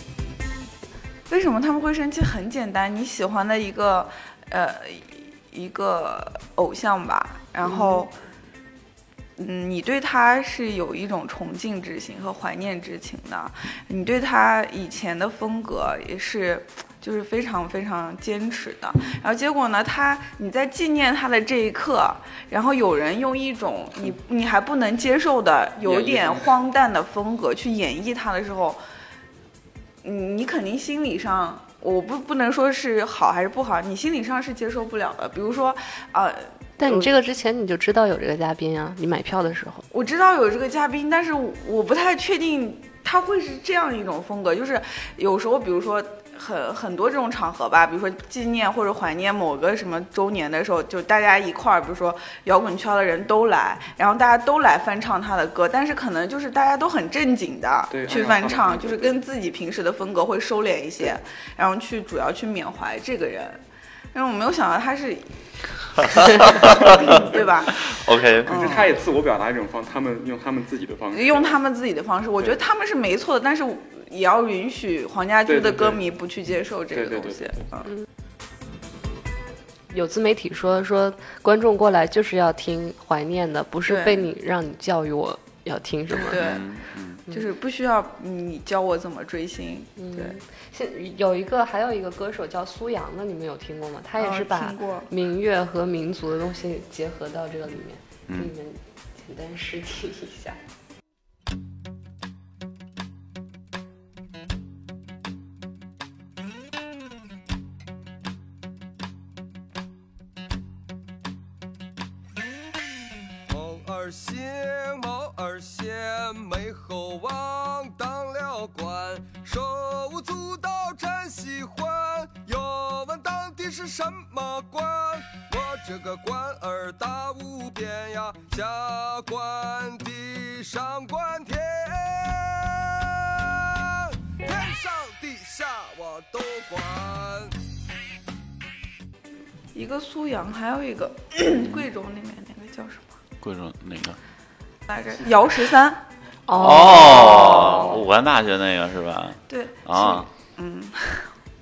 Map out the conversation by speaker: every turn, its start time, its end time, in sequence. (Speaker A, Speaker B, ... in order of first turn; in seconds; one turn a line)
Speaker A: 1.3-8.1
Speaker B: 7.7-8.0
Speaker A: 9.4-28.8
Speaker C: 25.8-26.5
Speaker A: 30.0-37.1
Speaker B: 36.8-39.8
Speaker A: 39.9-63.6
Speaker C: 57.9-59.2
Speaker A: 64.1-65.4
Speaker D: 66.0-68.5
Speaker A: 66.2-67.8
Speaker C: 66.6-67.4
Speaker A: 68.5-69.0
Speaker C: 68.5-71.5
Speaker A: 71.1-77.9
Speaker C: 75.5-76.0
Speaker C: 76.9-77.5
Speaker B: 79.9-86.4
Speaker A: 83.9-84.3
Speaker A: 86.2-86.7
Speaker D: 86.3-87.2
Speaker A: 87.3-90.3
Speaker B: 90.0-100.6
Speaker A: 94.2-95.1
Speaker D: 98.3-98.5
Speaker E: 113.5-137.5
Speaker A: 139.7-143.2
Speaker D: 141.5-141.9
Speaker D: 143.4-144.2
Speaker A: 144.9-146.0
Speaker B: 146.5-147.9
Speaker D: 146.5-150.3
Speaker A: 146.8-148.0
Speaker A: 149.5-151.3